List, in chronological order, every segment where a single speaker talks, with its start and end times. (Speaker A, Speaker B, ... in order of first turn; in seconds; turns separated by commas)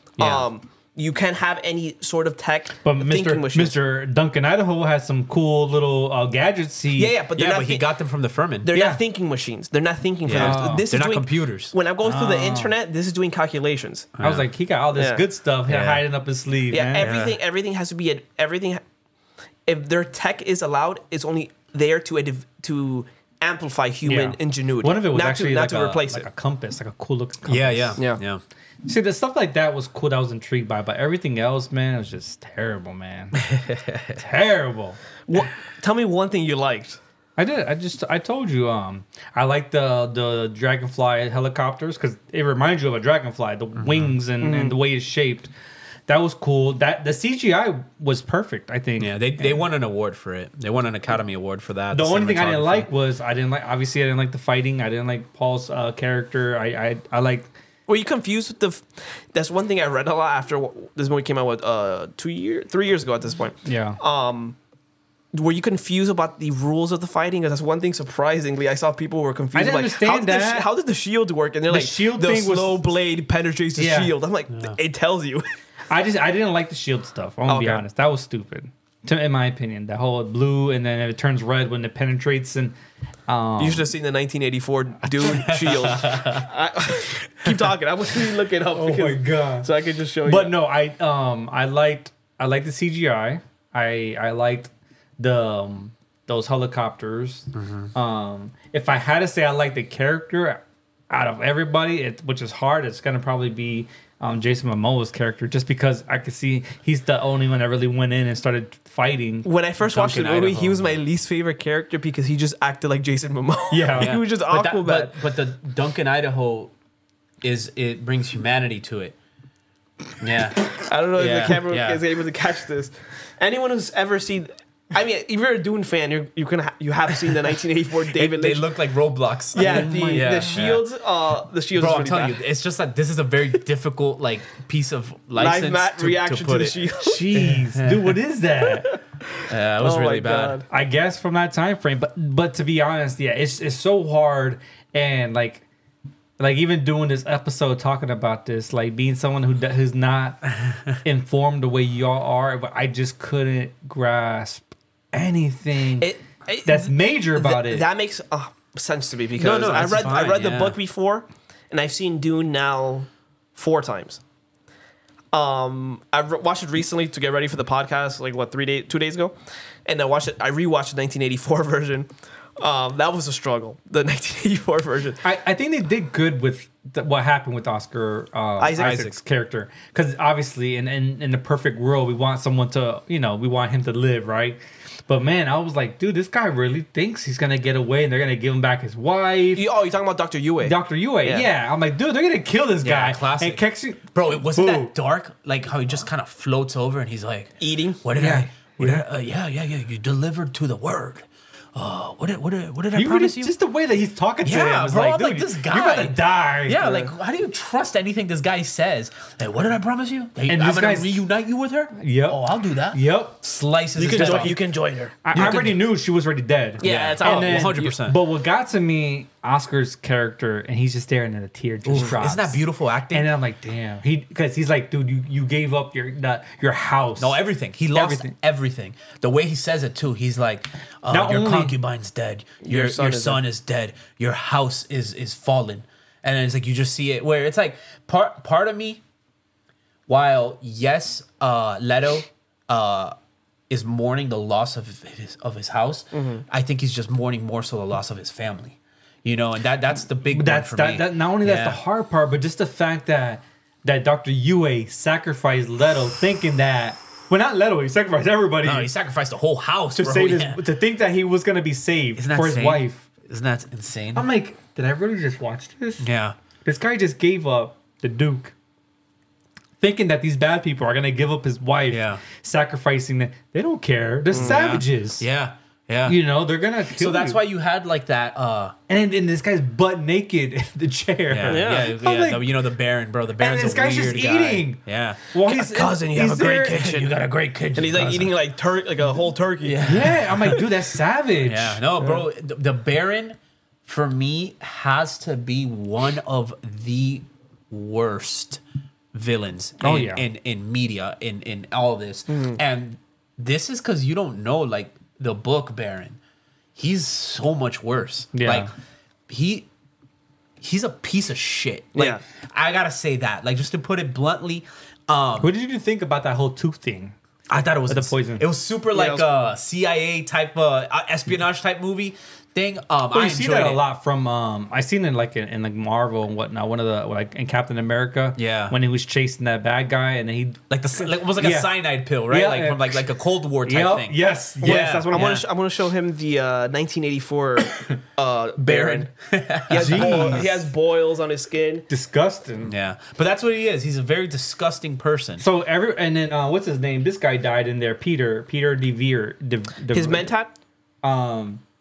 Speaker A: 0.2-0.5, Speaker B: 0.2-3.8, Speaker C: 2.8-7.2, Speaker B: 7.0-7.9, Speaker A: 7.4-8.7, Speaker B: 8.6-14.1, Speaker C: 8.7-9.0, Speaker A: 10.3-11.7, Speaker C: 10.3-10.9, Speaker C: 12.0-12.7, Speaker A: 14.2-14.5, Speaker C: 14.2-17.1, Speaker B: 14.9-15.2, Speaker A: 15.7-16.1, Speaker B: 16.7-18.8, Speaker A: 17.0-17.4, Speaker B: 19.7-26.3, Speaker C: 24.1-28.0, Speaker A: 27.5-28.4, Speaker C: 28.9-33.4, Speaker A: 33.4-34.2, Speaker C: 34.2-35.0, Speaker B: 35.3-37.0, Speaker C: 37.4-45.5, Speaker A: 43.8-44.2, Speaker B: 44.4-44.8, Speaker C: 46.1-49.6, Speaker A: 49.0-52.9, Speaker C: 51.9-57.5, Speaker B: 57.9-64.6, Speaker C: 63.6-64.0, Speaker B: 65.3-75.5, Speaker C: 69.5-70.7, Speaker C: 71.7-72.8, Speaker C: 73.8-74.1, Speaker C: 75.9-82.8, Speaker B: 77.5-77.8, Speaker C: 83.3-83.9, Speaker B: 83.6-90.5, Speaker A: 85.2-86.5, Speaker C: 88.7-89.7, Speaker C: 90.2-109.5, Speaker A: 97.5-97.9, Speaker B: 109.5-115.2, Speaker A: 109.8-111.0, Speaker C: 113.7-114.2, Speaker A: 114.0-116.7, Speaker A: 117.4-119.2, Speaker A: 120.2-122.0, Speaker B: 120.8-128.7, Speaker A: 128.1-130.8, Speaker C: 129.5-130.6, Speaker B: 129.5-132.4, Speaker A: 131.8-136.8, Speaker B: 135.3-137.3, Speaker C: 137.0-139.0, Speaker A: 137.3-138.2, Speaker B: 138.8-140.7, Speaker A: 139.5-140.6, Speaker C: 140.7-145.7, Speaker C: 146.4-150.4, Speaker C: 151.0-156.1, Speaker B: 156.0-164.2, Speaker C: 156.7-157.9, Speaker A: 159.4-160.8, Speaker B: 165.3-169.3, Speaker B: 169.9-175.2, Speaker C: 175.2-189.7, Speaker B: 178.6-179.1, Speaker A: 178.8-179.2, Speaker B: 189.6-191.5, Speaker C: 190.6-194.9, Speaker A: 192.8-203.5, Speaker B: 197.6-198.0, Speaker C: 198.2-199.0, Speaker C: 202.9-207.0, Speaker A: 204.4-214.6, Speaker C: 210.5-211.2, Speaker C: 212.0-213.4, Speaker B: 214.0-215.5, Speaker C: 214.1-214.6, Speaker C: 215.2-227.4, Speaker A: 215.3-215.8, Speaker B: 216.8-217.9, Speaker A: 216.8-218.2, Speaker A: 221.8-223.3, Speaker A: 227.2-239.0, Speaker C: 227.9-228.3, Speaker C: 231.1-231.8, Speaker B: 232.6-233.4, Speaker A: 240.1-243.2, Speaker A: 243.7-251.8, Speaker B: 246.1-246.4, Speaker C: 250.3-258.9, Speaker A: 258.6-260.6, Speaker C: 260.0-263.1, Speaker A: 262.2-264.3, Speaker C: 264.1-266.1, Speaker A: 266.0-266.4, Speaker C: 266.6-268.5, Speaker C: 269.8-275.2, Speaker A: 271.9-272.2, Speaker A: 274.3-276.2, Speaker C: 276.1-277.4, Speaker A: 276.9-278.8, Speaker C: 278.9-282.5, Speaker A: 281.3-285.2, Speaker B: 281.5-281.9, Speaker C: 283.4-284.8, Speaker C: 285.3-286.9, Speaker B: 285.4-287.1, Speaker A: 286.8-288.3, Speaker B: 287.8-289.9, Speaker A: 289.6-290.7, Speaker C: 289.8-291.9, Speaker A: 291.4-298.6, Speaker A: 299.1-306.2, Speaker C: 299.8-300.2, Speaker B: 302.3-302.6, Speaker A: 306.8-308.7, Speaker C: 308.3-308.7, Speaker A: 309.3-309.7, Speaker A: 310.6-315.5, Speaker B: 311.9-312.2, Speaker C: 315.4-317.1, Speaker A: 317.5-323.8, Speaker C: 317.9-318.4, Speaker B: 318.9-319.3, Speaker C: 323.1-330.6, Speaker A: 328.4-328.8, Speaker A: 330.7-335.5, Speaker C: 331.2-333.0, Speaker C: 333.6-335.4, Speaker B: 334.6-339.1, Speaker A: 338.6-340.6, Speaker B: 339.7-341.9, Speaker C: 339.7-340.5, Speaker C: 341.9-342.7, Speaker A: 342.6-345.4, Speaker C: 345.4-350.3, Speaker B: 349.9-350.5, Speaker C: 351.0-351.6